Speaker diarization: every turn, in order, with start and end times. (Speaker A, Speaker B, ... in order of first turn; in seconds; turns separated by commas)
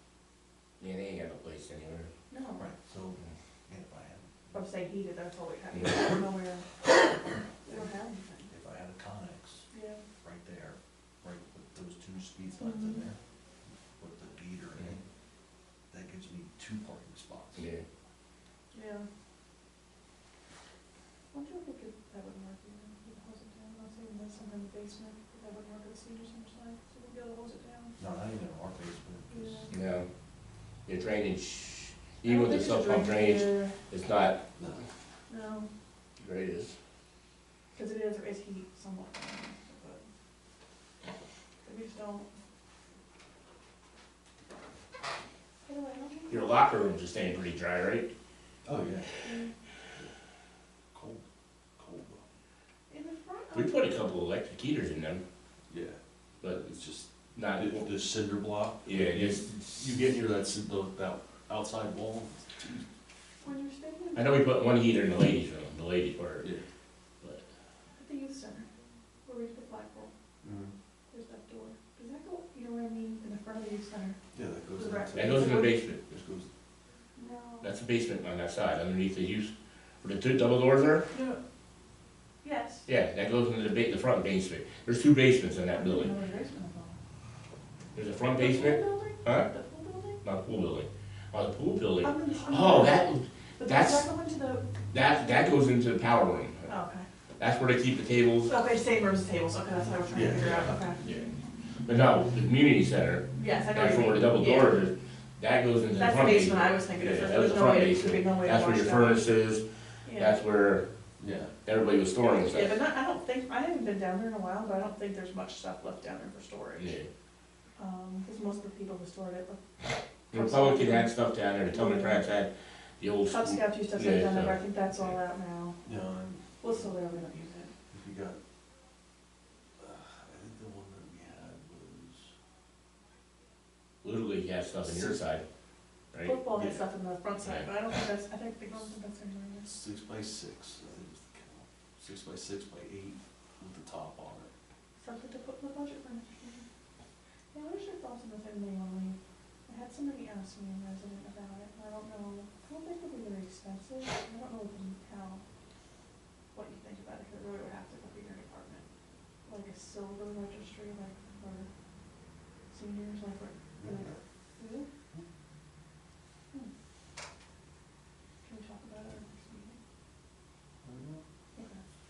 Speaker A: 0.8-2.1, Speaker B: 2.3-2.6, Speaker C: 2.5-4.7, Speaker B: 4.5-8.5, Speaker C: 8.5-9.7, Speaker B: 9.7-10.0, Speaker C: 10.2-13.2, Speaker B: 12.6-13.0, Speaker C: 14.0-15.0, Speaker C: 15.9-17.7, Speaker A: 17.5-17.8, Speaker B: 18.7-19.1, Speaker B: 21.3-28.0, Speaker C: 28.0-29.7, Speaker B: 29.3-29.7, Speaker A: 29.7-30.1, Speaker A: 30.9-34.4, Speaker B: 32.2-33.8, Speaker B: 35.3-35.7, Speaker A: 36.2-36.7, Speaker B: 37.7-40.0, Speaker B: 41.6-42.3, Speaker B: 45.6-46.6, Speaker A: 46.3-48.1, Speaker C: 48.6-49.1, Speaker B: 49.2-49.5, Speaker C: 50.9-51.2, Speaker C: 51.8-52.2, Speaker B: 52.9-54.0, Speaker A: 53.5-55.2, Speaker C: 55.7-62.9, Speaker A: 56.4-56.8, Speaker A: 57.3-57.9, Speaker A: 58.8-59.8, Speaker B: 63.4-64.4, Speaker A: 64.1-66.5, Speaker B: 68.0-68.7, Speaker B: 69.2-70.1, Speaker C: 70.4-70.7, Speaker B: 71.1-74.2, Speaker C: 74.3-76.5, Speaker B: 74.7-75.7, Speaker A: 75.1-76.0, Speaker B: 77.2-77.7, Speaker A: 77.6-81.1, Speaker B: 81.1-81.4, Speaker B: 82.4-82.8, Speaker A: 82.9-86.1, Speaker B: 85.7-87.0, Speaker A: 87.9-89.5, Speaker B: 88.4-90.2, Speaker A: 90.2-94.0, Speaker B: 92.0-93.1, Speaker B: 93.6-94.7, Speaker A: 94.9-96.7, Speaker B: 95.2-95.5, Speaker B: 96.7-97.0, Speaker A: 97.4-98.5, Speaker B: 98.5-101.0, Speaker C: 100.1-100.9, Speaker A: 101.0-110.8, Speaker B: 103.3-104.8, Speaker B: 105.9-109.2, Speaker B: 110.0-110.4, Speaker C: 111.2-111.5, Speaker A: 111.6-112.8, Speaker B: 112.5-116.9, Speaker A: 116.8-117.1, Speaker B: 117.8-119.6, Speaker B: 120.3-121.1, Speaker A: 120.3-125.2, Speaker B: 121.7-122.2, Speaker B: 123.3-125.8, Speaker C: 125.8-127.0, Speaker B: 126.6-127.7, Speaker C: 127.9-128.4, Speaker C: 129.8-132.3, Speaker A: 134.0-135.4, Speaker C: 134.8-135.1, Speaker A: 136.1-136.4, Speaker B: 136.2-139.7, Speaker C: 136.5-136.8, Speaker A: 137.4-137.7, Speaker C: 139.6-144.5, Speaker B: 145.0-146.6, Speaker B: 147.5-149.2, Speaker B: 149.7-155.4, Speaker B: 156.5-158.8, Speaker B: 159.4-161.7, Speaker B: 162.7-164.9, Speaker C: 163.8-164.2, Speaker B: 168.4-169.8, Speaker C: 170.8-171.2